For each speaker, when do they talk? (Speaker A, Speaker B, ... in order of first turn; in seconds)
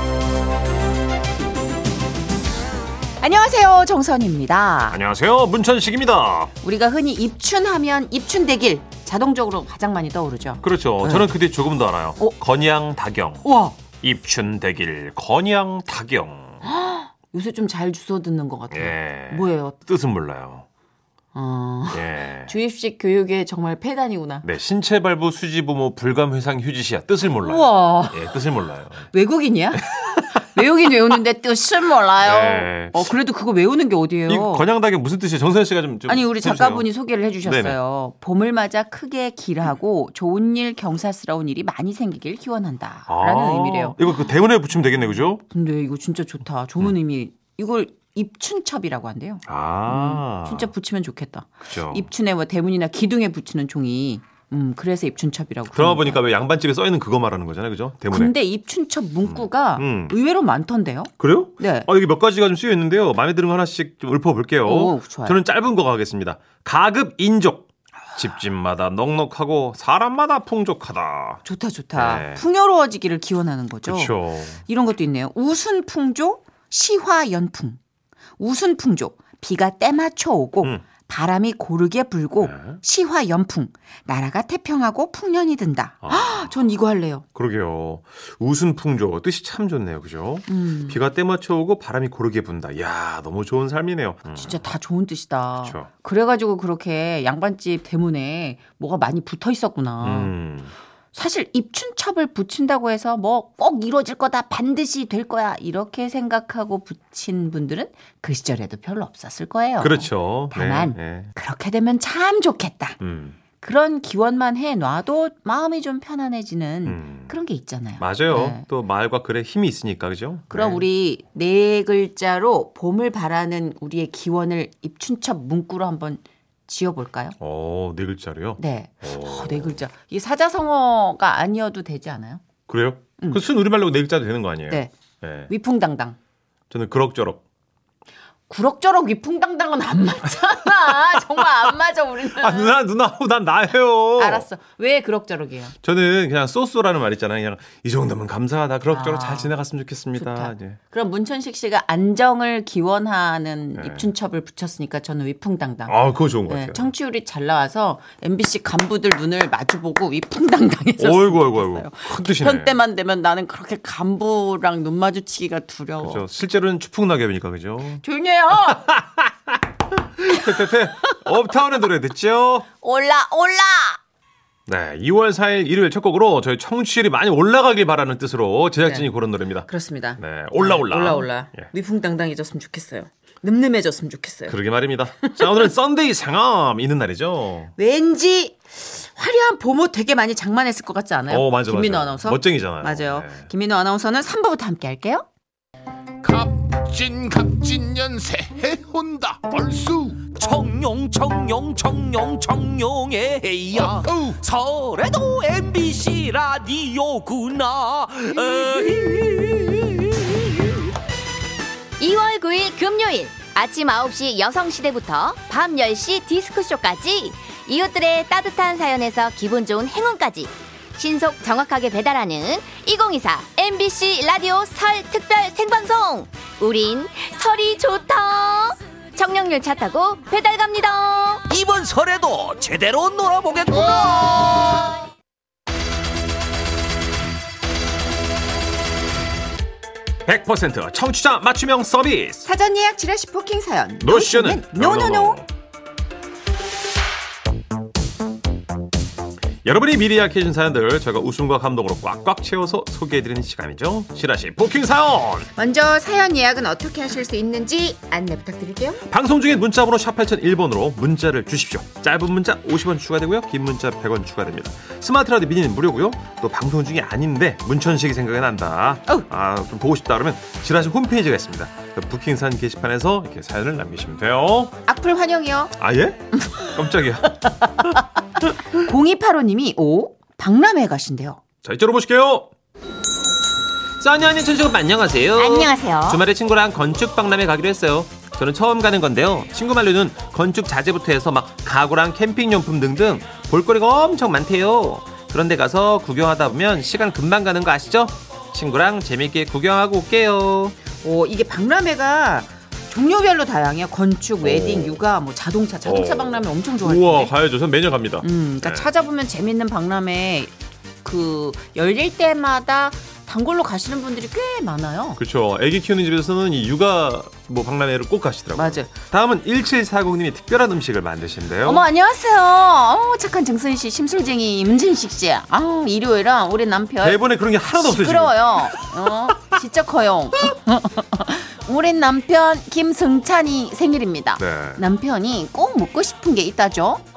Speaker A: 3.2-5.0, 6.6-11.3, 13.4-13.8, 16.6-19.8, 21.3-24.4, 27.4-28.4, 29.1-34.6, 36.1-44.0, 45.5-56.2, 58.1-61.9, 64.6-65.4, 71.4-77.8, 78.4-87.2, 90.5-91.0, 94.3-100.3, 101.1-113.0, 113.6-118.7, 120.5-127.3, 128.6-132.4, 135.5-136.2, 138.5-142.8, 144.2-145.7, 148.9-149.6, 150.2-155.9, 156.5-166.2, 168.0-169.0, 170.3-171.1, 172.8-174.0, 178.8-179.1, 179.7-184.6, 185.2-185.5, 187.8-195.2, 242.4-245.4, 255.6-259.0, 274.9-275.7, 276.4-276.7, 277.6-278.0, 278.8-281.4, 285.4-286.2, 301.0-307.3, 308.2-310.5, 311.0-315.2, 318.6-318.9, 321.6-327.2, 327.7-337.0
Speaker B: 4.9-6.5, 10.6-16.6, 18.7-20.7, 21.9-22.5, 24.4-29.1, 32.2-33.1, 34.3-36.9, 37.4-37.8, 43.1-45.4, 49.5-50.7, 51.7-52.1, 55.7-58.3, 59.2-60.1, 61.2-71.4, 71.9-72.4, 73.8-74.6, 82.4-82.8, 86.0-86.5, 87.3-94.6, 95.6-95.9, 100.0-100.7, 109.8-111.3, 113.0-113.4, 116.8-117.3, 118.0-120.8, 127.4-129.8, 132.7-135.5, 136.7-137.4, 140.7-141.7, 142.3-144.5, 145.8-150.8, 153.8-154.1, 155.8-156.9, 161.0-162.8, 166.0-168.0, 168.7-172.7, 174.7-181.7, 184.5-187.7, 191.3-193.5, 240.2-242.4, 244.0-245.5, 249.6-255.5, 259.1-274.8, 275.8-278.6, 281.6-282.5, 284.0-300.8, 304.4-305.0, 305.8-308.9, 315.2-321.9, 327.0-328.8, 334.4-334.8
Speaker C: 196.2-200.2, 203.7-204.4
Speaker D: 200.2-210.2, 231.5-234.9
Speaker E: 212.0-231.4